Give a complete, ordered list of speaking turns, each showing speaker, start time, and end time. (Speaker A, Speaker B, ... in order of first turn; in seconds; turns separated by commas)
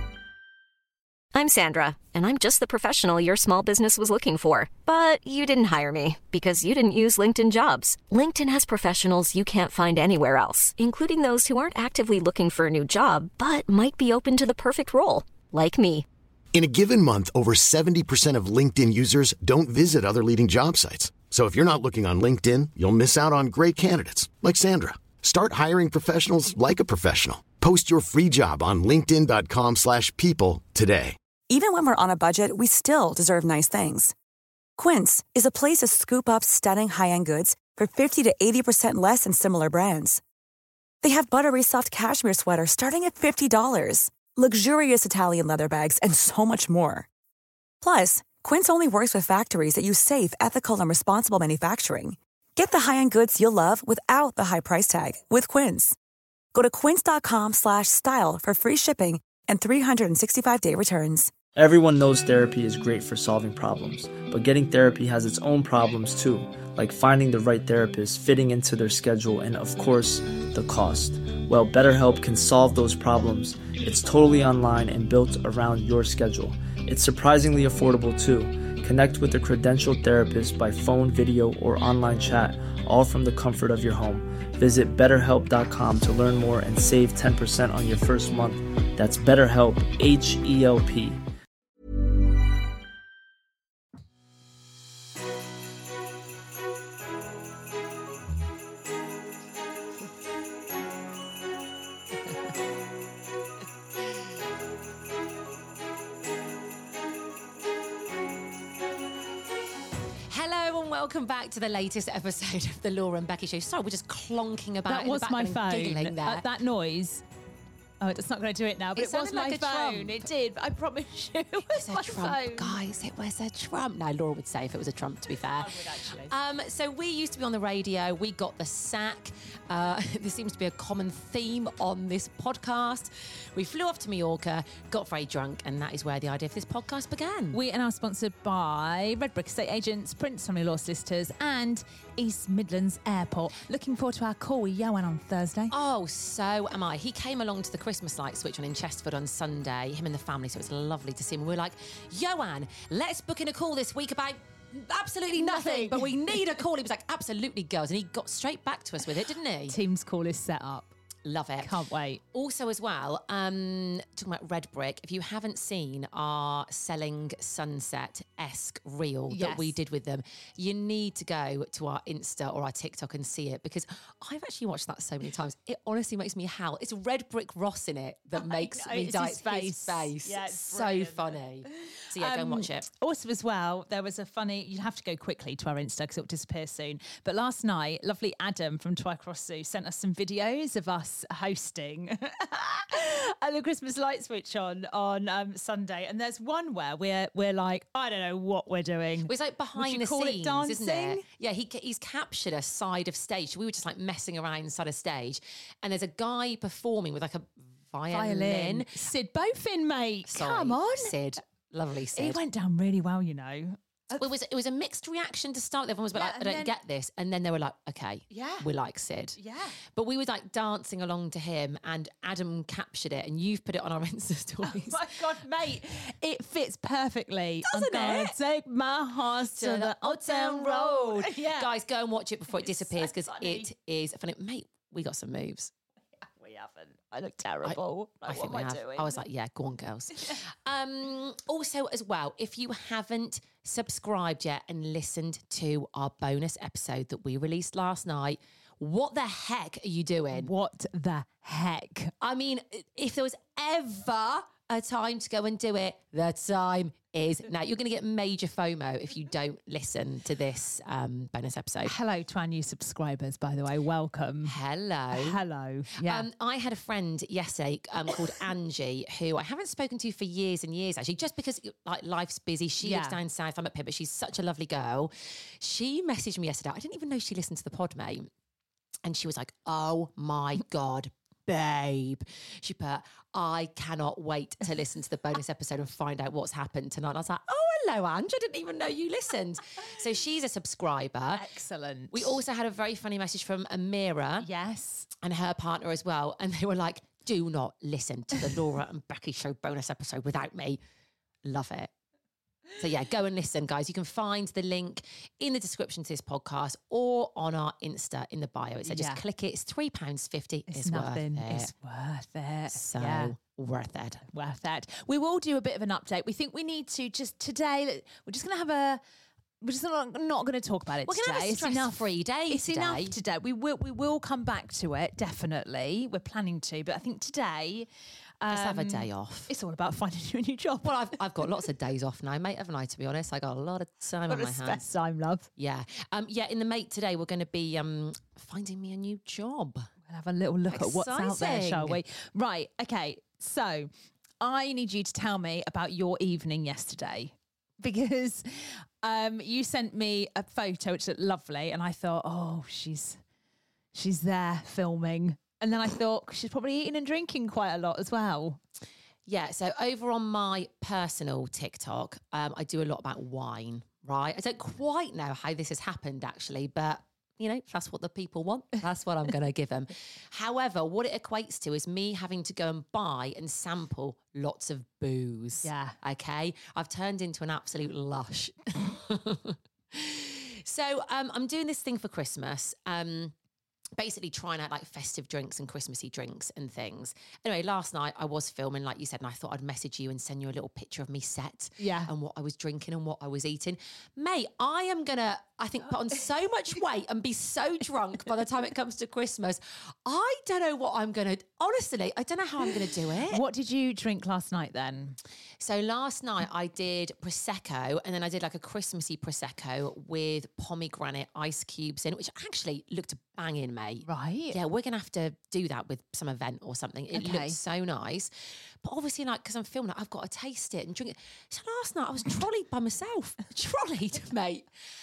Speaker A: 1.3-16.1, Speaker B: 16.5-31.2, Speaker C: 31.5-34.1, Speaker C: 34.8-40.2, Speaker C: 41.0-47.1, Speaker C: 47.8-56.0, Speaker C: 56.5-61.3, Speaker D: 61.5-91.2, Speaker E: 110.3-116.5, Speaker F: 114.9-117.2, Speaker F: 118.0-122.8, Speaker E: 118.9-120.3, Speaker E: 121.7-137.6, Speaker F: 125.2-126.3, Speaker F: 137.5-145.7, Speaker E: 145.7-159.8, Speaker F: 155.3-156.5, Speaker F: 159.7-160.9, Speaker E: 161.2-161.8, Speaker F: 161.6-162.2, Speaker E: 162.3-182.9, Speaker F: 169.3-169.7, Speaker F: 178.4-201.2, Speaker E: 199.2-208.9, Speaker F: 208.1-211.1, Speaker E: 210.3-212.4, Speaker F: 212.1-214.2, Speaker E: 214.2-219.4, Speaker F: 216.1-216.7, Speaker F: 218.3-218.7, Speaker F: 219.3-219.8, Speaker E: 219.9-225.2, Speaker F: 224.6-231.7, Speaker E: 227.6-228.3, Speaker E: 229.5-235.7, Speaker F: 232.5-233.7, Speaker F: 236.2-239.2, Speaker E: 237.6-250.5, Speaker F: 250.3-252.1, Speaker E: 252.2-261.9, Speaker F: 261.9-264.6, Speaker E: 264.4-265.4, Speaker F: 265.1-266.3, Speaker E: 266.0-278.3, Speaker F: 272.8-273.2, Speaker E: 279.0-291.4, Speaker F: 291.3-292.4, Speaker E: 292.1-294.5, Speaker F: 294.4-295.1, Speaker E: 295.2-300.8, Speaker E: 301.4-301.9, Speaker E: 302.8-311.7, Speaker F: 308.8-309.2, Speaker F: 310.7-313.3, Speaker E: 312.7-314.2, Speaker F: 314.3-319.0, Speaker F: 319.6-327.9, Speaker E: 321.0-323.2, Speaker F: 328.4-331.0, Speaker E: 328.5-329.5, Speaker E: 330.8-334.8, Speaker F: 334.3-335.5, Speaker E: 335.6-339.9, Speaker F: 340.1-343.9, Speaker E: 340.7-342.0, Speaker F: 344.4-353.2, Speaker F: 353.9-358.6, Speaker E: 359.3-383.3, Speaker F: 375.6-376.0, Speaker E: 384.0-403.4, Speaker F: 391.8-392.1, Speaker F: 403.3-405.2, Speaker E: 405.6-424.7, Speaker F: 414.0-414.6, Speaker F: 417.1-417.6